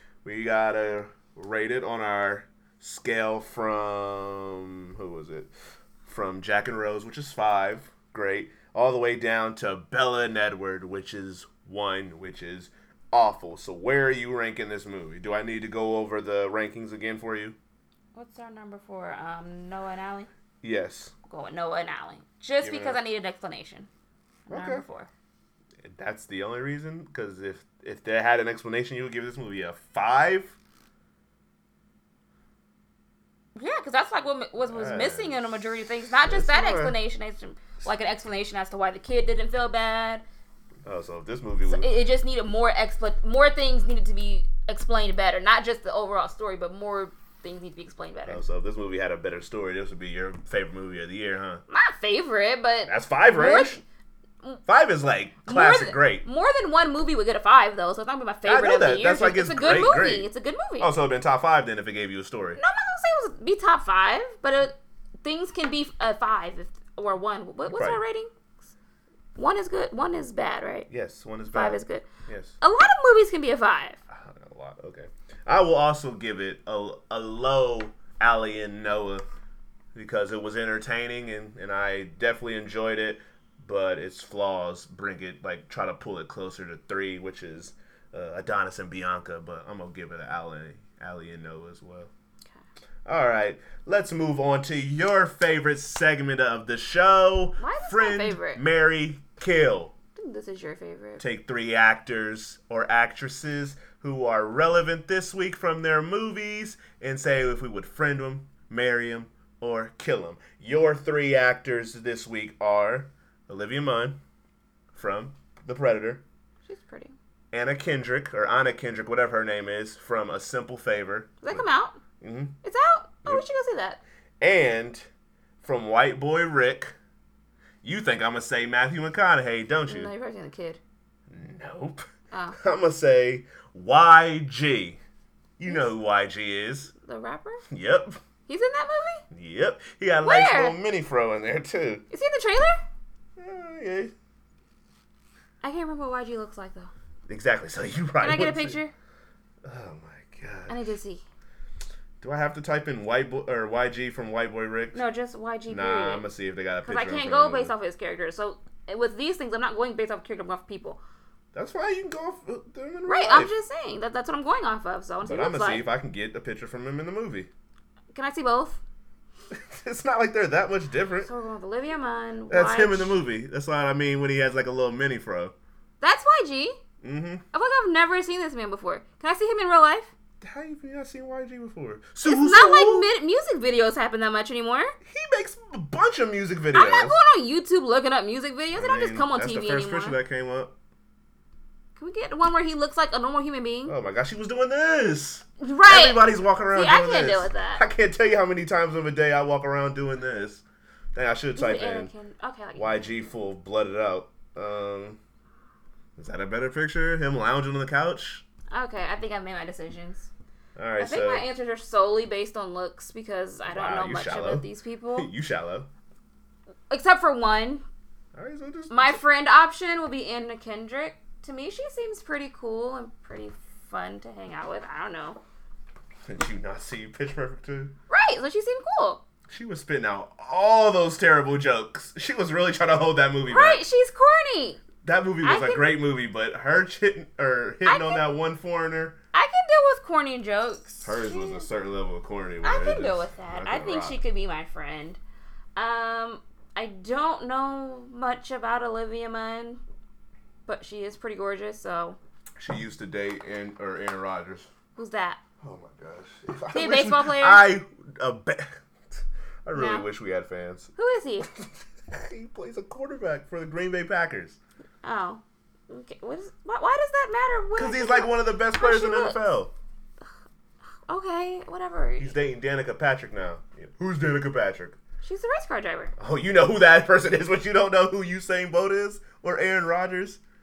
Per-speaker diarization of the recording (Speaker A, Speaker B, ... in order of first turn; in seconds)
Speaker A: 0.2-5.5, 6.0-17.6, 20.6-21.1, 22.6-23.0, 24.5-24.8, 25.8-30.6, 34.6-35.5, 36.2-37.0, 40.8-41.9, 48.2-51.6, 52.9-53.8, 54.7-56.2, 58.4-60.3, 60.8-62.6, 67.7-68.0, 70.9-72.5, 74.1-79.2, 79.9-92.1, 93.0-99.9, 101.2-114.2, 114.9-116.2, 117.5-121.6, 122.2-122.5, 124.4-125.1, 125.6-126.9, 127.8-130.1, 131.3-132.0, 132.6-135.0, 135.6-136.9, 137.7-138.2, 139.3-142.0, 143.4-144.1, 147.3-148.8, 149.6-150.8, 152.2-155.0, 155.7-157.7, 161.5-163.5, 165.2-167.5, 169.5-171.3, 172.5-175.5, 177.0-177.4, 180.4-183.1, 185.1-187.2, 188.7-190.7, 193.8-200.6, 201.1-202.1, 202.8-205.2, 206.2-208.4, 210.8-211.4, 213.7-215.9, 218.3-219.2, 226.3-227.9, 229.5-233.8, 235.0-239.2, 241.0-244.2, 252.6-254.7, 255.6-264.6, 267.8-269.7, 272.2-275.0, 276.2-280.4
Speaker B: 18.1-20.3, 21.3-23.9, 24.5-25.1, 33.5-40.2, 41.6-48.4, 51.7-53.8, 55.4-60.9, 62.6-68.3, 69.3-70.9, 71.5-72.0, 72.6-74.0, 97.6-98.6, 100.2-101.2, 116.6-117.1, 121.4-122.0, 122.6-124.0, 129.8-130.8, 132.3-132.6, 137.0-137.6, 138.5-139.2, 140.2-140.8, 142.1-142.8, 145.6-146.9, 148.2-148.9, 150.7-151.2, 154.9-156.2, 156.8-161.0, 163.1-165.9, 168.1-168.8, 171.2-173.2, 176.0-176.8, 177.5-180.1, 182.2-184.9, 186.7-190.2, 192.0-193.9, 195.6-197.8, 201.5-203.1, 208.7-210.3, 211.0-215.3, 216.9-217.8, 218.9-225.4, 228.1-229.2, 233.5-234.8, 235.4-235.9, 237.8-238.2, 239.3-241.7, 242.6-245.2, 245.8-249.8, 250.7-252.2, 254.9-255.4, 256.7-257.6, 259.7-260.1, 261.0-261.5, 265.0-269.4, 271.1-272.3, 275.2-276.1